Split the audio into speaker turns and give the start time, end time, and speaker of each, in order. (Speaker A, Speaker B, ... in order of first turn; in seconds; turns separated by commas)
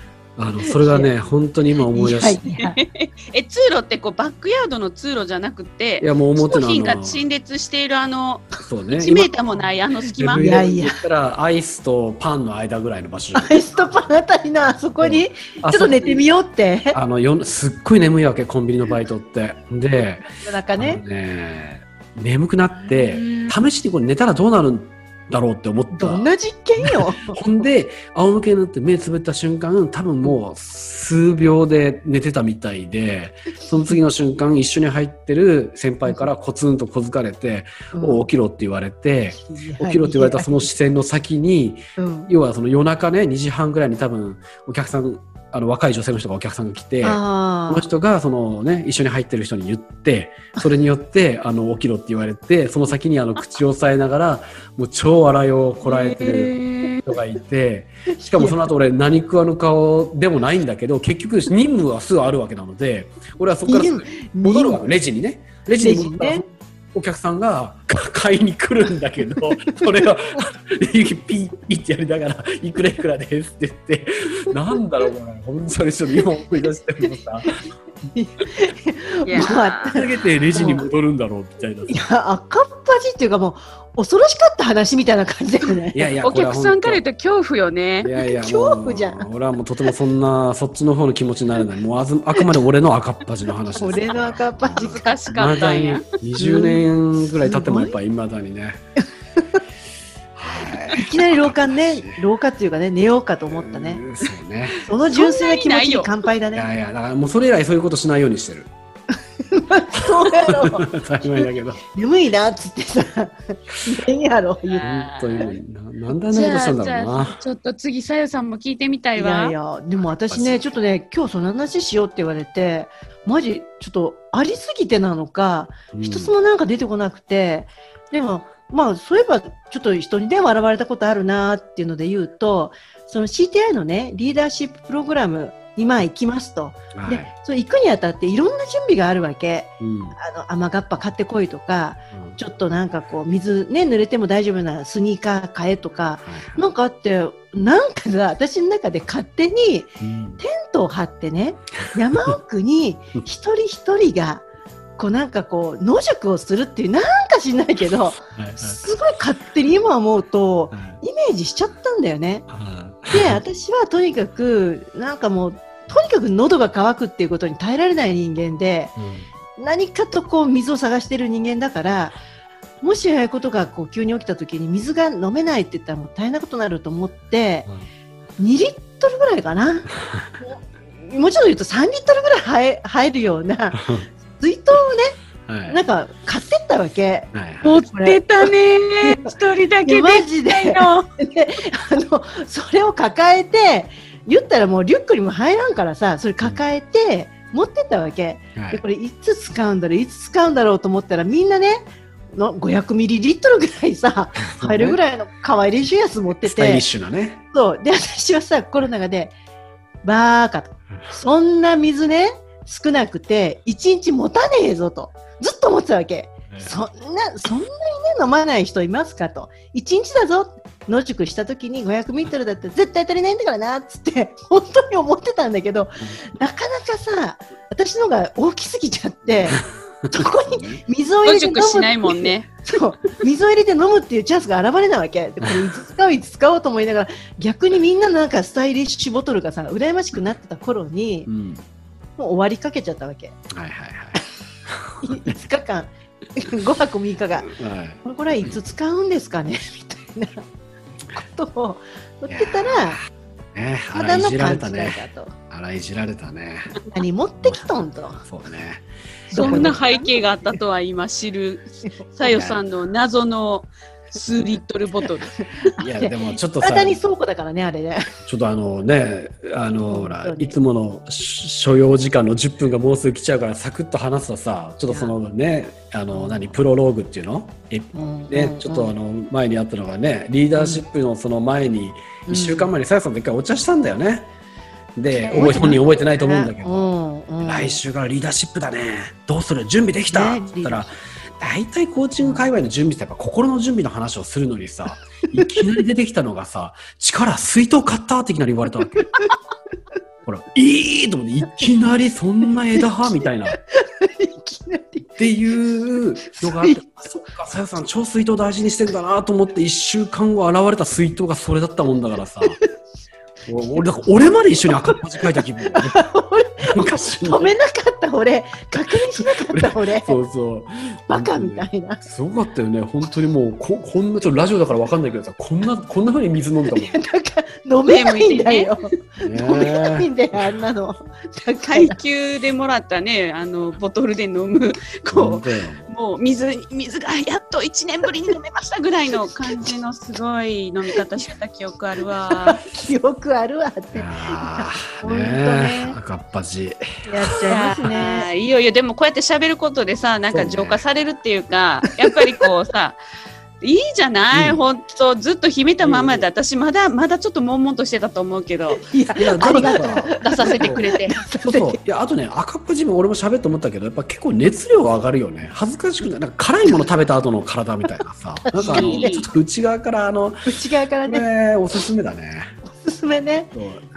Speaker A: 0.4-2.4, Speaker B: 0.7-1.1, Speaker B: 1.9-2.8, Speaker C: 2.6-10.5, Speaker A: 6.0-7.2, Speaker A: 8.6-9.3, Speaker A: 10.2-13.6, Speaker B: 10.4-11.0, Speaker B: 13.3-17.0, Speaker A: 15.0-16.2, Speaker A: 16.9-20.2, Speaker B: 20.3-21.0, Speaker A: 20.8-77.5, Speaker B: 22.9-23.5, Speaker B: 25.9-27.4, Speaker B: 37.9-38.3, Speaker B: 39.4-40.6, Speaker B: 42.0-42.3, Speaker B: 47.0-47.9, Speaker C: 55.8-57.2, Speaker B: 58.3-58.6, Speaker B: 63.7-64.8, Speaker B: 65.8-66.4, Speaker B: 78.1-80.9, Speaker C: 79.2-80.0, Speaker A: 79.9-82.0, Speaker B: 81.9-86.1, Speaker A: 85.9-87.0, Speaker C: 86.2-88.1, Speaker A: 88.0-98.8, Speaker B: 88.2-89.3, Speaker B: 93.7-95.2, Speaker C: 94.7-96.0, Speaker B: 96.4-98.0, Speaker A: 100.3-102.2, Speaker B: 100.9-104.0, Speaker A: 103.6-104.9, Speaker B: 104.8-106.7, Speaker C: 105.1-106.1, Speaker A: 106.5-108.7, Speaker B: 109.5-110.8, Speaker A: 110.2-111.8, Speaker B: 111.9-114.8, Speaker C: 114.7-115.5, Speaker A: 114.8-117.4, Speaker C: 116.3-119.5, Speaker B: 119.2-154.4, Speaker A: 120.3-120.6, Speaker A: 125.9-126.3, Speaker A: 136.9-137.3, Speaker A: 139.8-140.2, Speaker A: 142.1-142.4, Speaker A: 146.2-146.6, Speaker A: 150.0-150.4, Speaker B: 155.0-162.4, Speaker A: 158.3-158.8, Speaker A: 160.7-161.0, Speaker A: 162.5-163.4, Speaker B: 163.1-168.9, Speaker A: 169.0-169.3, Speaker B: 169.6-172.2, Speaker B: 172.8-177.7, Speaker B: 178.4-179.9, Speaker B: 180.4-185.1, Speaker A: 183.8-184.1, Speaker A: 185.5-185.8, Speaker B: 185.7-188.5, Speaker A: 187.3-187.7, Speaker C: 187.6-191.1, Speaker B: 189.8-206.8, Speaker A: 198.5-198.8, Speaker A: 204.4-205.0, Speaker A: 206.4-207.4, Speaker B: 207.5-209.3, Speaker B: 210.0-241.3, Speaker A: 216.5-216.8, Speaker A: 230.4-230.8, Speaker C: 231.2-232.5, Speaker A: 241.3-241.6, Speaker B: 242.2-243.4, Speaker A: 243.5-245.0, Speaker B: 245.0-247.5, Speaker A: 247.5-248.6, Speaker B: 248.0-250.4, Speaker B: 251.2-253.0, Speaker A: 252.3-256.7, Speaker B: 253.9-255.3, Speaker B: 256.9-258.2, Speaker A: 257.4-257.6, Speaker A: 258.2-259.8, Speaker B: 259.3-260.2, Speaker C: 259.3-265.4, Speaker A: 262.2-262.6, Speaker B: 265.6-268.0, Speaker A: 265.8-267.0, Speaker A: 268.2-284.3, Speaker B: 269.9-270.6, Speaker B: 276.1-276.5, Speaker B: 277.9-278.9, Speaker B: 280.6-280.8, Speaker B: 282.2-282.7, Speaker A: 285.0-299.1, Speaker C: 285.3-285.6, Speaker B: 285.3-287.8, Speaker B: 290.1-290.9, Speaker B: 292.2-292.5, Speaker A: 300.2-303.6, Speaker B: 303.7-305.1, Speaker A: 305.1-312.6, Speaker B: 306.4-306.8, Speaker A: 313.4-316.0, Speaker B: 315.7-320.2, Speaker A: 316.6-317.5, Speaker A: 319.1-327.0, Speaker B: 321.1-322.0, Speaker B: 326.7-332.0, Speaker C: 327.9-328.7, Speaker A: 329.2-330.5, Speaker C: 331.7-342.6, Speaker A: 335.1-335.9, Speaker B: 342.3-346.0, Speaker A: 343.9-347.9, Speaker B: 347.1-348.3, Speaker C: 347.4-353.0, Speaker A: 350.3-350.8, Speaker C: 353.6-358.8, Speaker A: 354.3-354.6, Speaker A: 355.8-356.3, Speaker B: 358.7-361.8, Speaker A: 359.1-370.5, Speaker C: 359.4-361.2, Speaker B: 368.5-369.2, Speaker C: 368.7-369.3, Speaker B: 370.4-371.3, Speaker A: 371.0-372.6, Speaker B: 372.7-373.5, Speaker A: 373.5-373.9